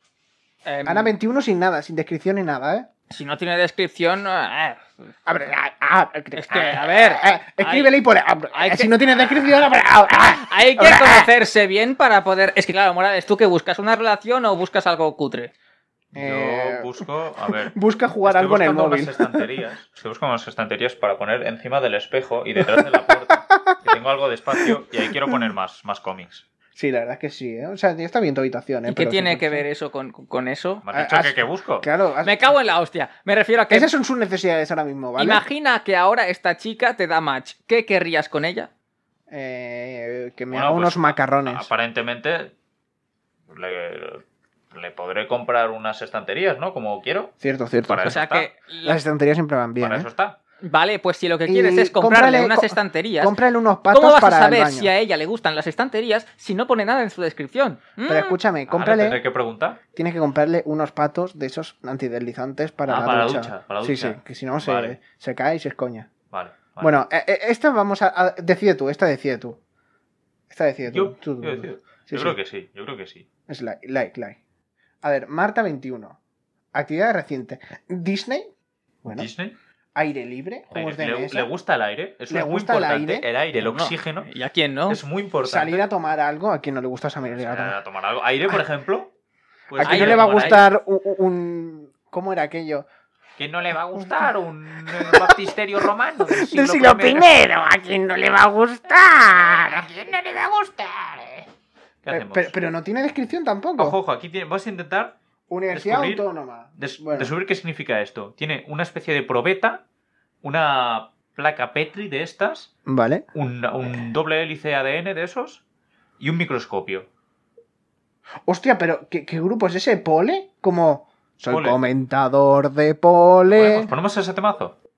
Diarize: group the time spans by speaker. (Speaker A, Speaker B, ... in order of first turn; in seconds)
Speaker A: 0.6-1.1, 3.1-4.9, 6.3-7.9, 8.5-8.9, 10.4-15.5, 28.9-30.8, 32.2-33.9, 35.2-38.7, 48.0-49.0, 50.6-53.4, 53.9-58.4, 83.6-85.0, 89.8-90.6
Speaker B: 0.8-2.9, 5.2-11.3, 16.1-19.4, 22.6-23.8, 26.8-29.6, 30.9-32.4, 33.7-35.4, 39.3-41.7, 47.4-48.2, 48.8-50.1, 51.4-54.9, 58.0-59.2, 59.9-66.1, 66.8-69.6, 70.5-72.4, 73.5-74.4, 75.0-76.2, 76.7-78.5, 80.0-81.5, 82.3-83.2, 85.4-87.7, 89.7-92.9, 93.9-94.3, 94.8-95.4, 96.2-101.5, 102.1-104.0, 105.5-107.3, 112.8-113.2, 118.5-123.9
Speaker C: 16.1-26.4, 30.8-31.9, 40.5-42.5, 43.5-47.3, 47.8-48.5, 49.8-50.4, 58.7-59.8, 62.9-65.0, 66.3-67.0, 70.9-73.2, 79.1-79.5, 80.7-84.3, 84.9-85.8, 87.3-89.1, 89.7-90.7, 93.4-97.3, 102.0-102.5, 103.8-105.2, 105.7-106.2, 106.8-109.8, 110.4-112.7, 113.3-115.6, 116.2-117.1, 121.5-121.8, 123.5-124.8